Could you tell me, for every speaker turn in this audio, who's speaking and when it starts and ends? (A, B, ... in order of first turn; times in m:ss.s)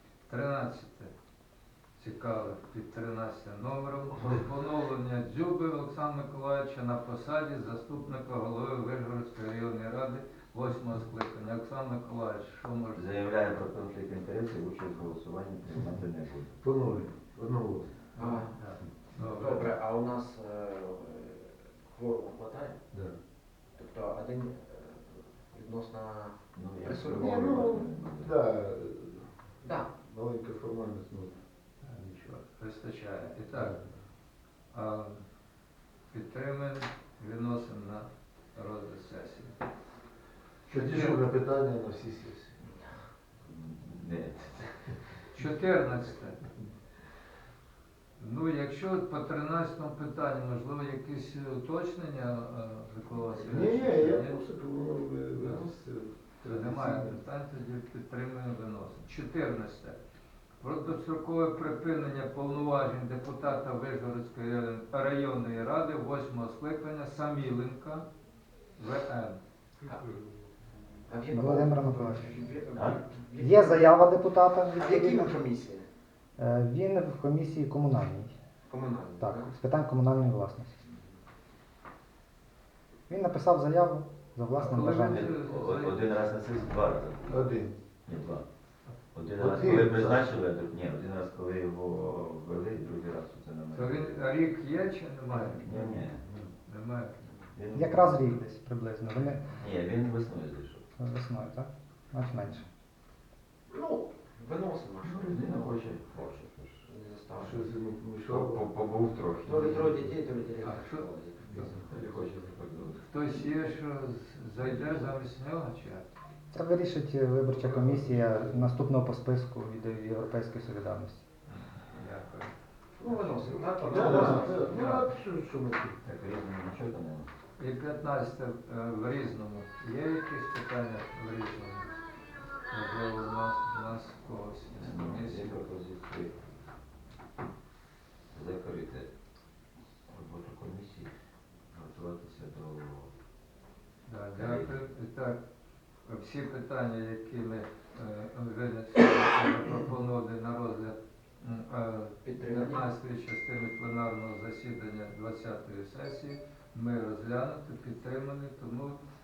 0:00.3-0:01.1 A
0:02.0-0:13.0 A
0:12.9-0:16.6 B
0:16.6-0:17.9 C
0:18.2-0:19.7 A
0:18.2-0:22.8 D
0:22.9-0:23.2 C
0:23.8-0:27.6 D
0:26.5-0:28.4 B
0:27.1-0:32.4 C
0:29.6-0:29.9 D
0:31.8-0:33.8 A
0:33.5-0:34.0 C
0:34.7-0:35.2 A
0:36.1-0:39.6 A
0:40.7-0:42.6 C
0:40.7-0:41.2 A
0:43.4-0:45.2 B
0:45.3-0:46.4 A
0:48.2-0:54.4 A
0:53.4-0:57.2 C
0:55.4-0:55.7 A
0:56.4-1:00.0 A
1:00.6-1:08.1 A
1:08.8-1:09.4 A
1:09.8-1:10.1 D
1:11.1-1:14.0 D
1:11.3-1:12.4 E
1:12.8-1:13.0 B
1:13.4-1:15.3 E
1:14.8-1:15.9 D
1:16.4-1:18.4 E
1:18.7-1:19.5 D
1:19.2-1:20.8 E
1:23.1-1:25.3 E
1:24.6-1:26.0 A
1:24.9-1:27.5 B
1:27.3-1:27.8 C
1:28.0-1:28.4 B
1:29.1-1:34.2 B
1:29.3-1:30.4 C
1:33.7-1:35.6 A
1:35.3-1:36.2 B
1:35.6-1:36.5 C
1:36.6-1:37.1 A
1:37.5-1:38.4 B
1:37.7-1:39.5 E
1:39.6-1:40.8 B
1:41.0-1:42.7 E
1:43.7-1:46.3 D
1:45.0-1:46.8 B
1:46.8-1:47.6 D
1:47.3-1:48.7 C
1:48.3-1:50.1 B
1:49.4-1:51.9 D
1:50.6-1:51.0 A
1:51.6-1:53.0 B
1:53.1-1:56.1 A
1:54.6-1:55.1 B
1:56.5-2:01.2 E
1:57.6-1:58.6 C
2:01.5-2:02.5 A
2:03.0-2:05.0 D
2:03.1-2:05.1 A
2:03.9-2:06.0 C
2:06.0-2:07.3 B
2:07.6-2:11.9 A
2:12.7-2:15.6 A
2:14.7-2:16.3 B
2:18.3-2:19.1 B
2:20.1-2:21.1 B
2:21.7-2:23.1 B
2:24.1-2:25.4 A
2:24.3-2:24.8 B
2:26.0-2:39.0 A
2:32.2-2:32.9 D